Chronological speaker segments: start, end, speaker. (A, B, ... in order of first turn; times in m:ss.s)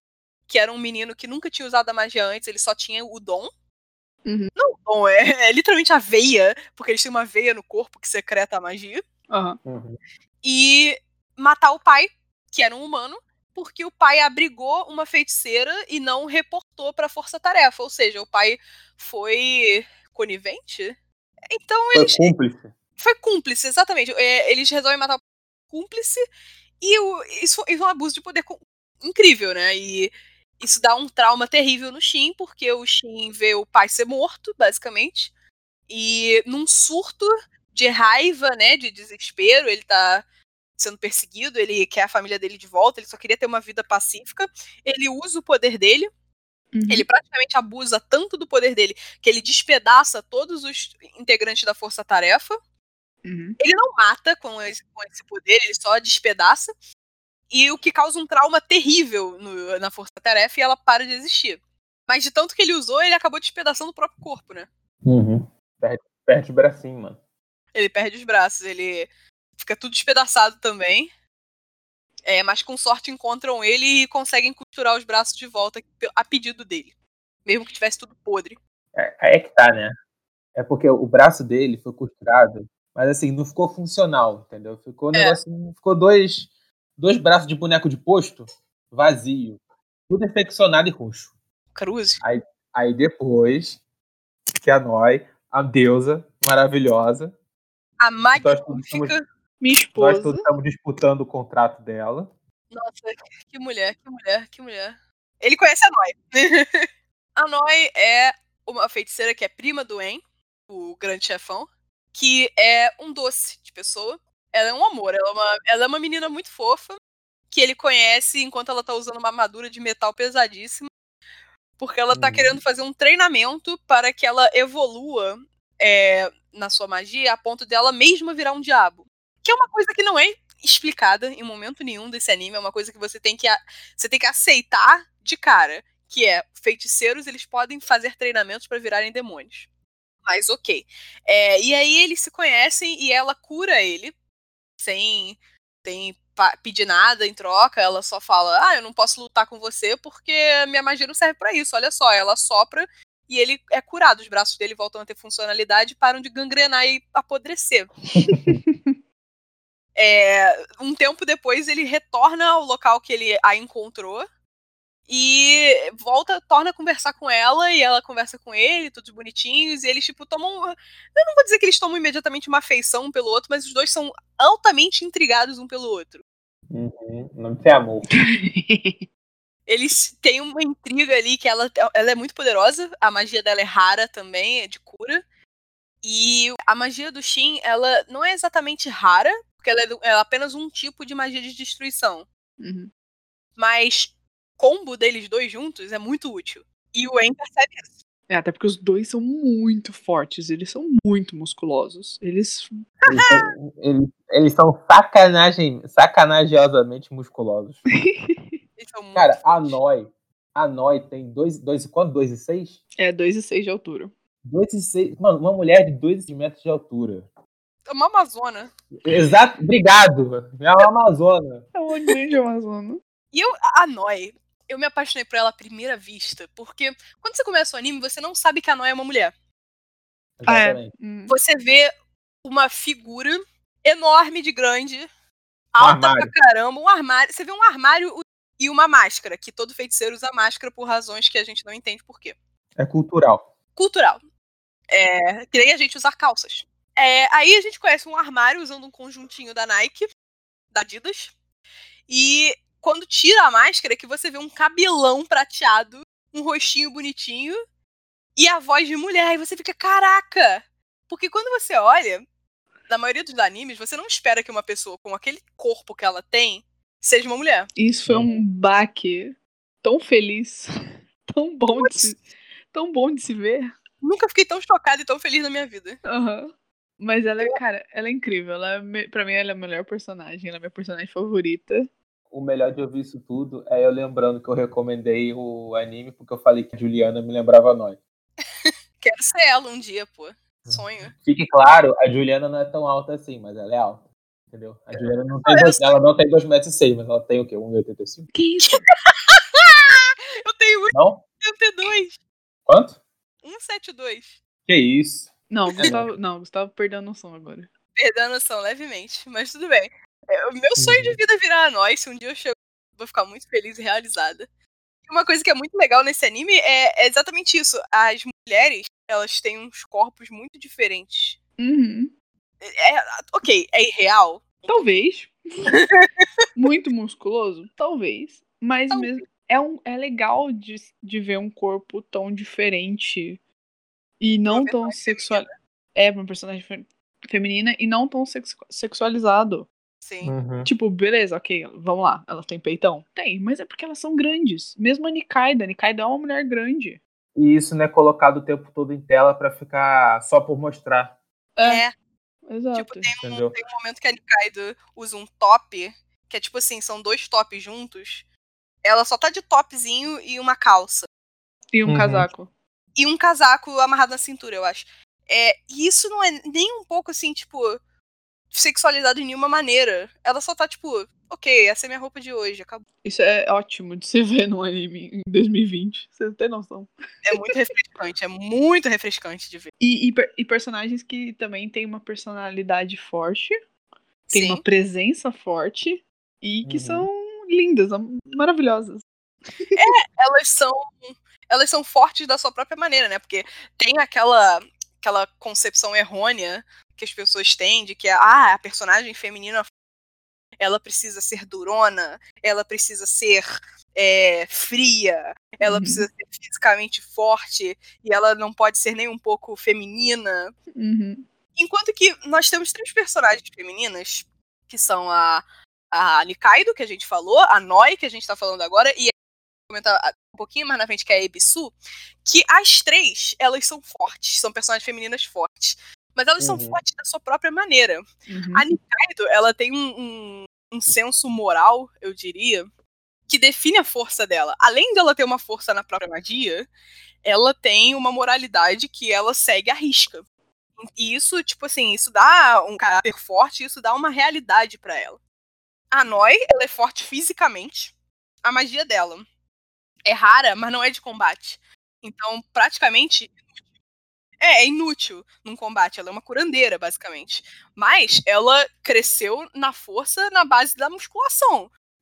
0:00.5-0:03.5 A
0:04.2-0:04.5 B
0:04.6-0:09.0 A
0:09.3-0:09.6 B
0:09.6-0:10.0 C
0:10.4-0:21.0 A
0:21.5-0:22.3 A
0:21.9-0:22.7 C
0:23.0-0:26.2 A
0:26.8-0:35.3 A
0:35.9-0:40.2 A
0:40.8-0:46.1 A
0:46.7-0:47.0 B
0:46.9-0:52.6 A
0:53.2-0:53.6 B
0:53.6-0:56.7 A
0:57.5-1:04.7 A
1:05.0-1:07.2 C
1:07.7-1:11.1 A
1:12.2-1:16.9 A
1:17.4-1:18.6 A
1:18.9-1:20.0 C
1:20.5-1:31.3 C
1:25.1-1:25.4 A
1:31.7-1:32.2 A
1:32.2-1:33.8 C
1:34.6-1:37.3 C
1:38.0-1:39.2 A
1:38.4-1:39.1 C
1:39.6-1:40.4 B
1:39.9-1:42.3 C
1:42.7-1:57.0 A
1:57.5-2:00.9 A
2:01.8-2:19.7 A
2:02.1-2:02.6 C
2:20.2-2:24.1 A
2:24.8-2:38.0 A
2:38.2-2:38.5 C
2:38.4-2:39.0 B
2:40.0-2:44.2 A
2:45.1-2:56.2 A
2:56.7-2:58.1 C
2:58.2-2:59.0 B
2:59.7-3:05.2 A
3:06.0-3:12.2 A
3:12.6-3:12.9 B
3:13.6-3:17.9 A
3:18.3-3:22.7 B
3:23.0-3:27.8 C
3:23.1-3:23.4 A
3:28.0-3:28.6 B
3:28.8-3:29.8 A
3:29.1-3:32.8 C
3:33.0-3:34.1 B
3:34.4-3:37.3 C
3:37.9-3:38.7 A
3:39.0-3:41.6 C
3:41.7-3:43.0 B
3:43.3-3:49.3 A
3:50.4-3:50.9 C
3:50.5-3:51.4 B
3:51.3-3:51.9 A
3:52.4-3:55.1 A
3:55.7-4:02.4 A
3:55.8-3:56.3 C
4:02.8-4:03.5 C
4:03.8-4:04.2 A
4:04.9-4:10.1 A
4:10.7-4:11.3 A
4:12.1-4:17.6 A
4:18.4-4:22.2 A
4:22.9-4:27.7 A
4:27.8-4:30.7 B
4:28.1-4:28.4 C
4:31.3-4:32.2 B
4:31.7-4:32.1 A
4:32.7-4:33.7 B
4:34.0-4:36.0 A
4:36.1-4:41.9 B
4:42.3-4:48.0 C
4:48.6-4:51.1 A
4:50.7-4:58.3 C
4:55.0-4:56.0 A
4:58.3-4:58.8 B
4:58.7-5:02.2 A
5:00.9-5:01.2 C
5:02.7-5:03.0 C
5:03.4-5:04.4 A
5:04.6-5:06.1 C
5:05.5-5:07.7 B
5:08.0-5:14.5 A
5:10.8-5:11.2 C
5:15.1-5:21.4 A
5:21.6-5:22.1 B
5:22.6-5:24.9 A
5:24.7-5:25.7 B
5:25.7-5:26.2 A
5:26.5-5:33.4 B
5:34.2-5:39.7 B
5:34.5-5:35.5 A
5:40.0-5:40.3 A
5:40.2-5:40.7 C
5:40.6-5:47.0 B
5:47.4-5:51.1 C
5:51.6-5:51.8 B
5:51.6-5:51.9 A
5:52.5-5:53.1 B
5:52.7-5:58.2 A
5:53.2-5:53.5 C
5:58.8-6:01.1 A
6:01.7-6:02.5 B
6:01.9-6:02.3 C
6:03.0-6:07.8 A
6:08.5-6:12.8 A
6:13.0-6:17.5 B
6:17.2-6:19.7 A
6:19.8-6:23.5 B
6:24.3-6:24.6 A
6:24.3-6:29.0 B
6:26.6-6:27.1 C
6:29.6-6:29.9 B
6:29.8-6:39.7 A
6:40.6-6:50.5 A
6:45.6-6:46.0 B
6:50.7-6:51.3 B
6:51.6-6:59.1 A
6:59.7-7:12.7 A
7:06.4-7:06.8 C
7:08.3-7:08.6 B
7:13.3-7:16.7 A
7:17.2-7:20.2 A
7:20.8-7:25.2 A
7:25.9-7:29.2 A
7:30.0-7:33.4 A
7:34.4-7:41.7 A